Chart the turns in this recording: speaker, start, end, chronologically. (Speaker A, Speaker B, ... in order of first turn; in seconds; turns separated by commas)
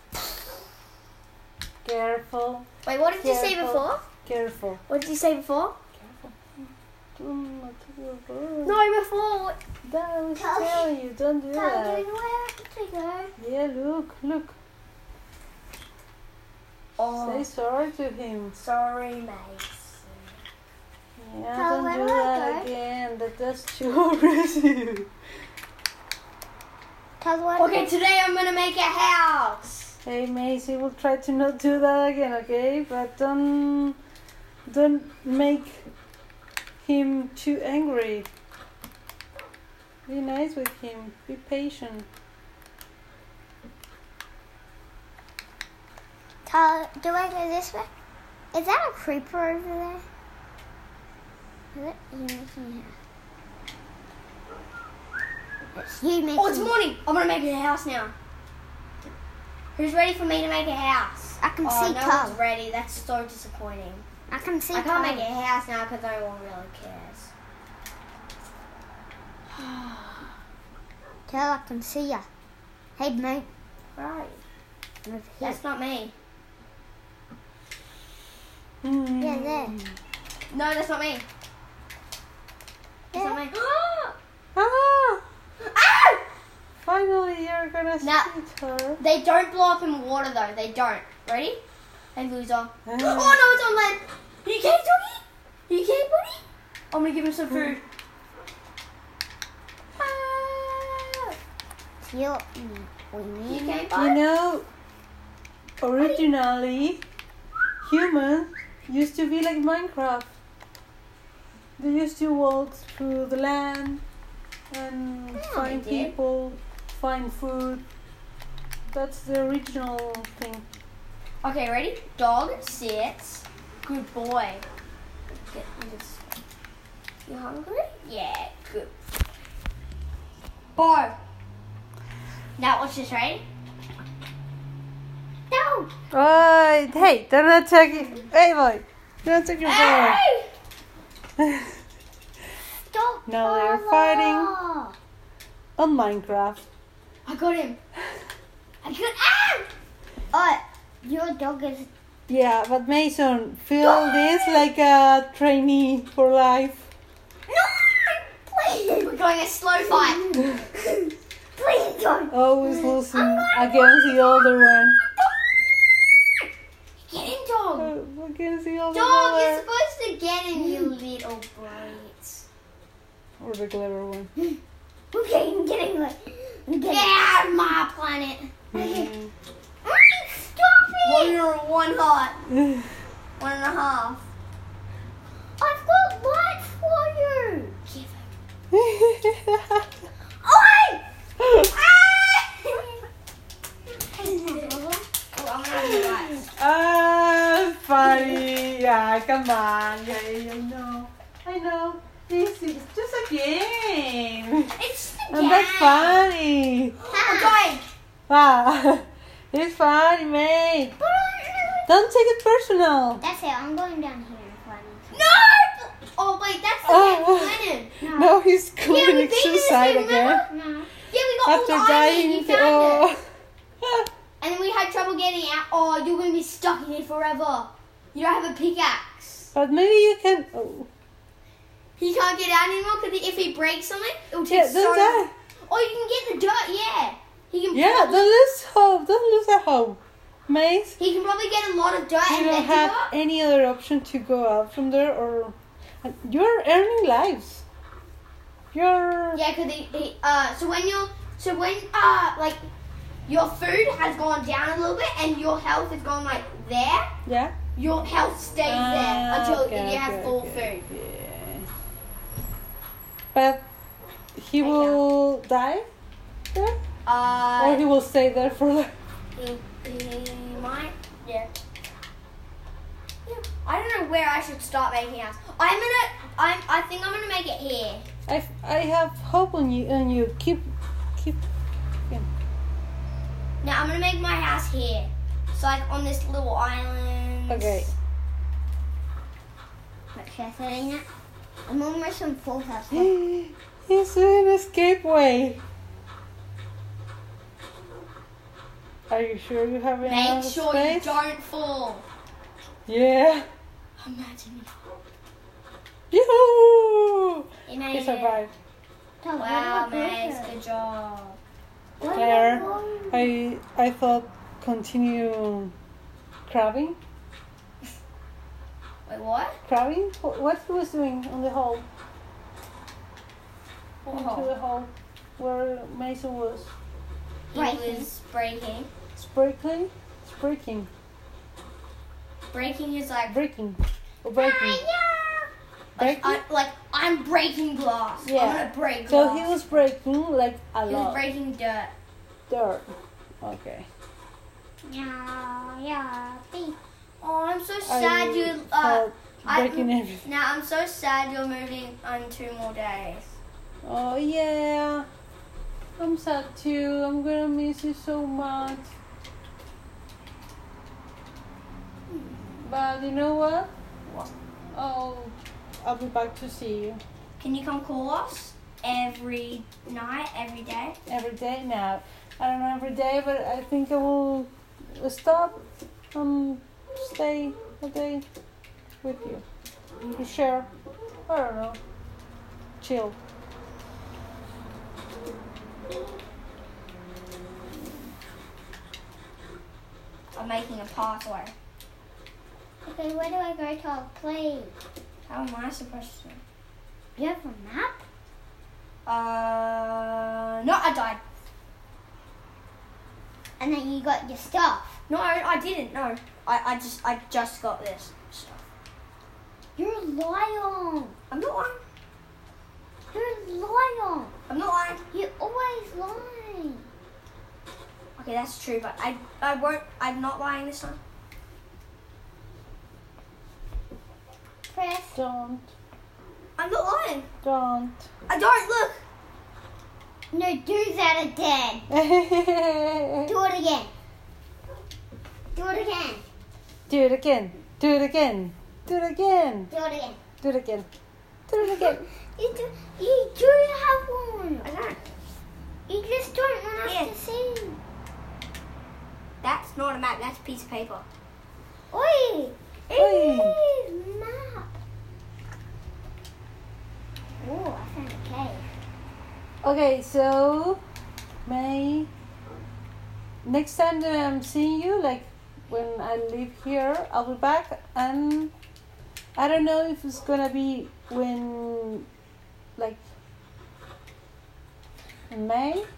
Speaker A: 1.8-2.7, Speaker B: 2.9-4.0, Speaker A: 3.2-4.8, Speaker B: 4.9-5.8, Speaker A: 6.0-8.8, Speaker B: 8.7-9.6, Speaker A: 9.8-12.1, Speaker C: 10.4-10.9, Speaker C: 11.5-13.3, Speaker A: 13.4-14.6, Speaker B: 17.0-17.5, Speaker A: 17.2-18.6, Speaker B: 18.6-20.4, Speaker A: 21.2-25.1, Speaker C: 21.5-22.7, Speaker C: 27.2-27.9, Speaker B: 27.6-30.0, Speaker A: 30.0-34.0, Speaker A: 34.7-35.9, Speaker A: 36.8-38.3, Speaker A: 40.1-42.1, Speaker C: 46.5-47.9, Speaker C: 48.5-50.0, Speaker C: 51.7-53.0, Speaker C: 55.8-56.7, Speaker B: 56.4-58.1, Speaker B: 59.8-64.0, Speaker C: 61.4-62.4, Speaker C: 64.3-65.3, Speaker B: 64.7-67.3, Speaker B: 69.5-70.3, Speaker C: 71.3-72.3, Speaker C: 73.0-73.5, Speaker B: 74.0-74.4, Speaker C: 75.0-75.6, Speaker B: 75.4-76.1, Speaker A: 78.8-80.0, Speaker C: 79.2-79.8, Speaker B: 80.5-81.3, Speaker C: 83.1-83.4, Speaker B: 83.1-84.2, Speaker A: 84.5-85.2, Speaker B: 85.6-86.2, Speaker A: 86.8-89.0, Speaker B: 88.0-88.3, Speaker B: 89.0-91.6, Speaker B: 92.2-97.8, Speaker A: 92.8-93.4, Speaker A: 97.5-97.8, Speaker B: 100.0-101.0, Speaker C: 102.1-103.8, Speaker B: 103.5-104.2, Speaker A: 103.9-104.7, Speaker A: 105.8-107.0, Speaker A: 107.8-110.3, Speaker A: 111.8-114.0, Speaker A: 114.7-117.8, Speaker C: 115.4-115.8, Speaker B: 115.5-116.1, Speaker A: 118.9-120.7, Speaker B: 121.4-124.7, Speaker B: 125.3-126.3, Speaker B: 127.3-129.0, Speaker B: 130.8-131.2, Speaker B: 132.6-133.4, Speaker C: 135.5-135.9, Speaker A: 136.1-140.2, Speaker B: 139.6-140.5, Speaker A: 141.4-141.8, Speaker C: 142.9-144.9, Speaker A: 143.3-144.5, Speaker A: 145.8-146.6, Speaker B: 147.3-147.8, Speaker B: 148.8-149.7, Speaker B: 150.3-150.6, Speaker C: 151.0-151.9, Speaker A: 152.3-156.9, Speaker B: 153.8-154.6, Speaker C: 157.5-159.2, Speaker B: 158.9-160.3, Speaker C: 159.9-164.1, Speaker A: 160.4-160.7, Speaker A: 162.3-165.0, Speaker B: 167.1-167.9, Speaker A: 167.8-169.7, Speaker B: 168.9-172.5, Speaker C: 170.5-171.0, Speaker A: 173.4-174.3, Speaker C: 175.1-177.2, Speaker B: 176.9-178.5, Speaker A: 178.7-179.3, Speaker C: 178.7-179.1, Speaker C: 179.8-181.4, Speaker B: 181.0-182.4, Speaker A: 182.5-182.9, Speaker B: 183.4-184.2, Speaker C: 185.6-187.8, Speaker B: 187.9-188.3, Speaker A: 188.7-189.9, Speaker C: 190.4-191.0, Speaker A: 191.4-191.7, Speaker B: 191.7-192.8, Speaker C: 192.7-193.0, Speaker C: 193.9-195.0, Speaker B: 194.4-194.8, Speaker B: 195.3-196.5, Speaker A: 195.7-204.8, Speaker B: 204.8-206.3, Speaker A: 205.3-207.0, Speaker B: 207.0-207.8, Speaker C: 207.1-207.7, Speaker A: 208.3-211.0, Speaker C: 211.0-212.0, Speaker A: 211.9-213.2, Speaker C: 213.2-215.4, Speaker B: 215.1-218.3, Speaker A: 216.8-220.5, Speaker B: 218.9-220.4, Speaker C: 220.4-220.9, Speaker B: 221.1-223.1, Speaker A: 221.4-223.3, Speaker A: 223.8-224.1, Speaker B: 224.4-229.5, Speaker A: 229.5-230.9, Speaker B: 232.0-238.3, Speaker A: 234.5-235.3, Speaker A: 237.7-241.0, Speaker B: 241.0-243.1, Speaker A: 242.3-247.7, Speaker A: 248.7-249.4, Speaker B: 249.3-252.6, Speaker B: 253.3-257.1, Speaker A: 257.3-257.6, Speaker B: 257.8-260.9, Speaker A: 258.6-261.7, Speaker A: 263.3-263.6, Speaker A: 264.4-265.9, Speaker B: 264.6-265.0, Speaker A: 266.5-266.8, Speaker B: 267.1-267.9, Speaker A: 267.6-268.9, Speaker B: 269.4-271.5, Speaker B: 273.5-278.1, Speaker A: 278.3-281.4, Speaker B: 283.6-287.9, Speaker A: 287.5-287.9, Speaker C: 290.1-291.1, Speaker C: 291.7-293.1, Speaker A: 292.9-295.6, Speaker A: 299.1-301.2, Speaker B: 300.0-302.1, Speaker A: 302.9-303.5, Speaker B: 304.0-304.7, Speaker A: 306.1-308.5, Speaker B: 307.7-308.4, Speaker C: 309.2-310.6, Speaker B: 309.4-311.4, Speaker C: 312.0-313.3, Speaker B: 312.0-312.8, Speaker A: 312.1-315.7, Speaker A: 316.5-317.0, Speaker B: 319.1-319.6, Speaker A: 319.7-321.9, Speaker A: 324.1-326.7, Speaker B: 324.1-324.5, Speaker B: 327.5-328.9, Speaker C: 327.5-328.1, Speaker A: 329.2-330.9, Speaker B: 332.5-333.4, Speaker A: 333.3-334.9, Speaker C: 334.4-335.5, Speaker A: 336.0-336.4, Speaker B: 336.0-339.5, Speaker A: 338.2-341.2, Speaker B: 340.9-341.9, Speaker A: 342.5-343.9, Speaker C: 344.8-346.8, Speaker B: 347.2-353.4, Speaker A: 347.9-350.3, Speaker A: 353.8-355.1, Speaker A: 356.0-358.9, Speaker A: 362.6-363.7, Speaker B: 364.1-364.3, Speaker A: 364.7-367.0, Speaker B: 367.4-371.0, Speaker A: 371.1-378.2, Speaker A: 379.0-379.4, Speaker A: 380.0-380.7, Speaker A: 381.3-381.8, Speaker A: 382.8-383.2, Speaker B: 390.4-391.5, Speaker C: 392.9-394.8, Speaker B: 395.3-396.4, Speaker C: 397.2-398.0, Speaker B: 399.1-401.2, Speaker C: 403.6-405.0, Speaker B: 405.1-408.6, Speaker C: 409.8-411.2, Speaker B: 411.3-411.8, Speaker C: 413.1-414.3, Speaker B: 414.5-415.0, Speaker C: 415.1-416.9, Speaker B: 418.2-421.0, Speaker C: 424.7-425.2, Speaker A: 425.1-425.7, Speaker B: 426.6-427.3, Speaker A: 427.4-428.1, Speaker B: 428.3-429.0, Speaker C: 430.3-431.9, Speaker A: 431.9-433.4, Speaker C: 433.2-433.9, Speaker C: 435.5-436.2, Speaker A: 436.9-439.7, Speaker C: 439.7-440.2, Speaker A: 440.4-440.9, Speaker A: 441.5-442.1, Speaker C: 441.6-444.7, Speaker B: 444.6-445.0, Speaker C: 445.9-447.8, Speaker B: 446.8-447.1, Speaker B: 449.4-451.1, Speaker C: 451.9-454.7, Speaker A: 452.9-453.6, Speaker C: 457.4-458.7, Speaker A: 459.6-460.8, Speaker A: 461.4-462.1, Speaker A: 463.4-468.5, Speaker A: 469.4-472.1, Speaker A: 472.8-473.0, Speaker A: 475.3-475.9